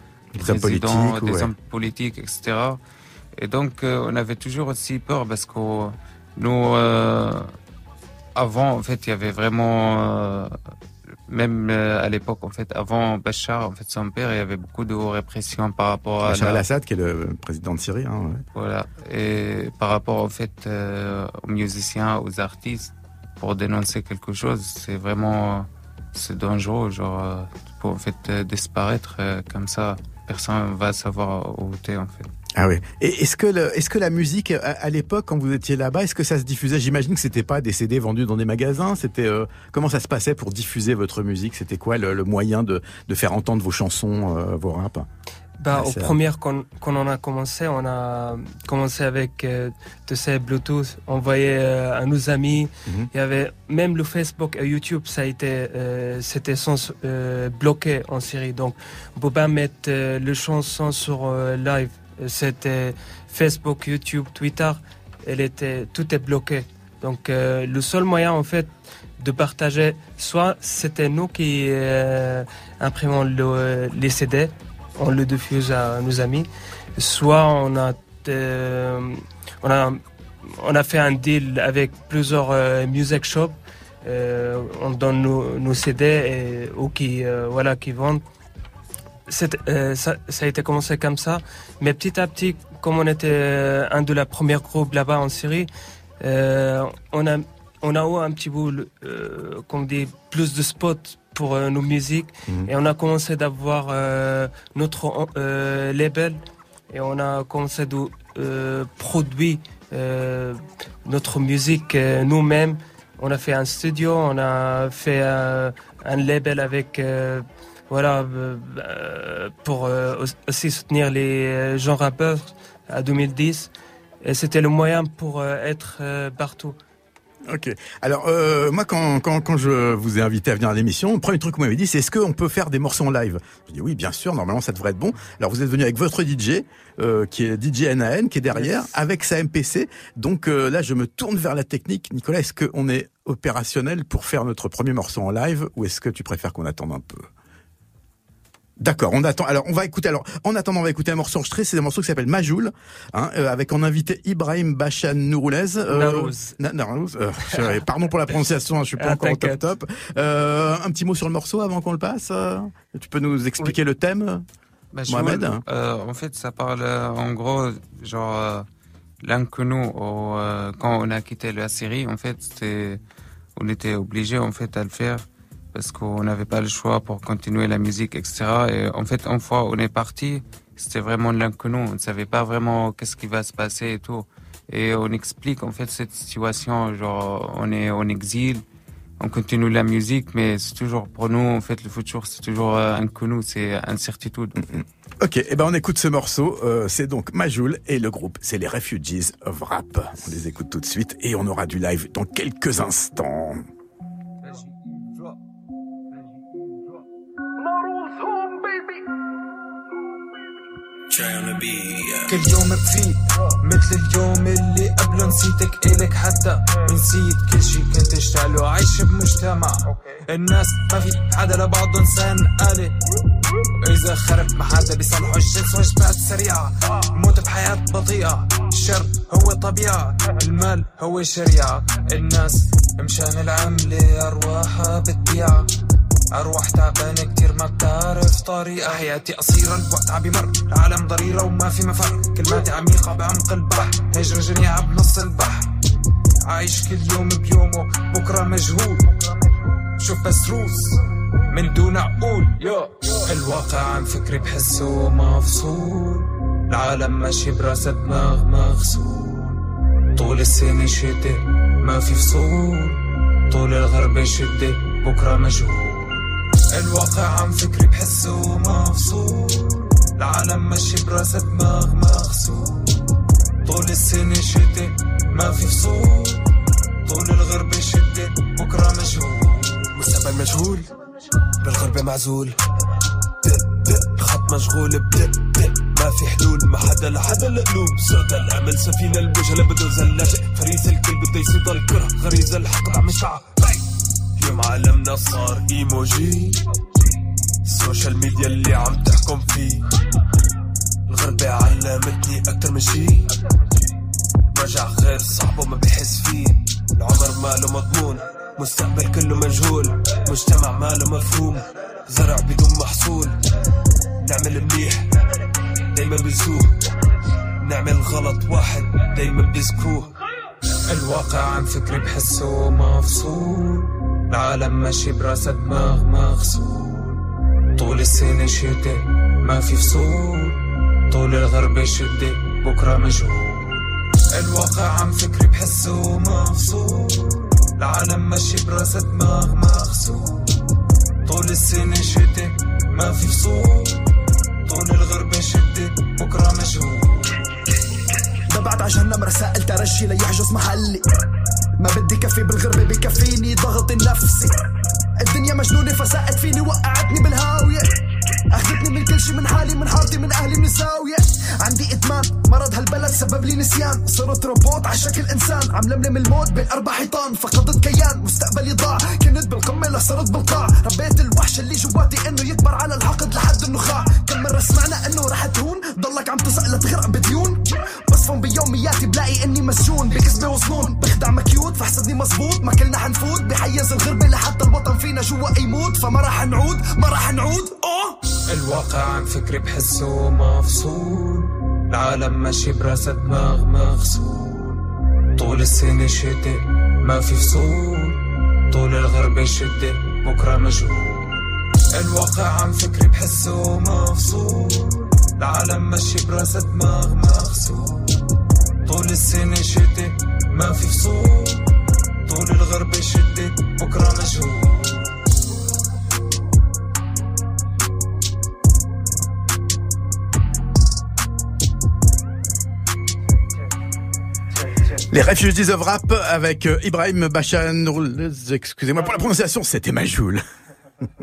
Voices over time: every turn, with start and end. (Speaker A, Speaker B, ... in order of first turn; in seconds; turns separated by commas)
Speaker A: 0.3-1.5, Speaker B: 0.4-2.8, Speaker B: 3.4-7.5, Speaker B: 8.3-10.5, Speaker B: 11.3-16.6, Speaker A: 16.2-18.4, Speaker B: 18.5-32.3, Speaker A: 32.6-45.1, Speaker C: 45.6-88.2, Speaker A: 45.7-46.1, Speaker C: 89.3-95.7, Speaker C: 96.2-106.4, Speaker C: 106.9-123.7, Speaker C: 124.2-126.7, Speaker A: 127.5-147.3, Speaker A: 148.8-164.4, Speaker C: 155.9-156.6, Speaker C: 157.5-157.8, Speaker C: 159.0-159.6, Speaker B: 164.9-168.7, Speaker A: 165.1-165.6, Speaker B: 169.2-173.0, Speaker B: 173.6-175.2, Speaker B: 175.7-188.6, Speaker B: 189.2-194.6, Speaker A: 194.6-203.6, Speaker D: 211.2-222.9, Speaker D: 223.8-235.7, Speaker D: 236.3-245.7, Speaker D: 246.4-249.1, Speaker D: 250.0-259.6, Speaker D: 260.1-263.0, Speaker D: 263.5-273.0, Speaker D: 273.6-276.4, Speaker D: 277.0-279.9, Speaker E: 279.9-280.9, Speaker E: 281.6-282.6, Speaker E: 283.8-293.8, Speaker E: 294.4-296.6, Speaker E: 297.6-299.8, Speaker E: 301.1-303.3, Speaker E: 304.5-313.3, Speaker E: 314.2-315.1, Speaker E: 315.9-316.7, Speaker E: 317.6-320.1, Speaker D: 320.9-327.2, Speaker D: 327.8-330.6, Speaker D: 331.1-340.5, Speaker D: 341.2-344.0, Speaker D: 344.6-347.4, Speaker F: 348.5-351.0, Speaker F: 351.8-354.5, Speaker F: 355.2-357.9, Speaker F: 358.5-388.2, Speaker D: 388.4-394.8, Speaker D: 395.4-398.2, Speaker D: 398.7-408.1, Speaker D: 408.8-411.6, Speaker D: 412.2-415.1, Speaker A: 425.1-430.4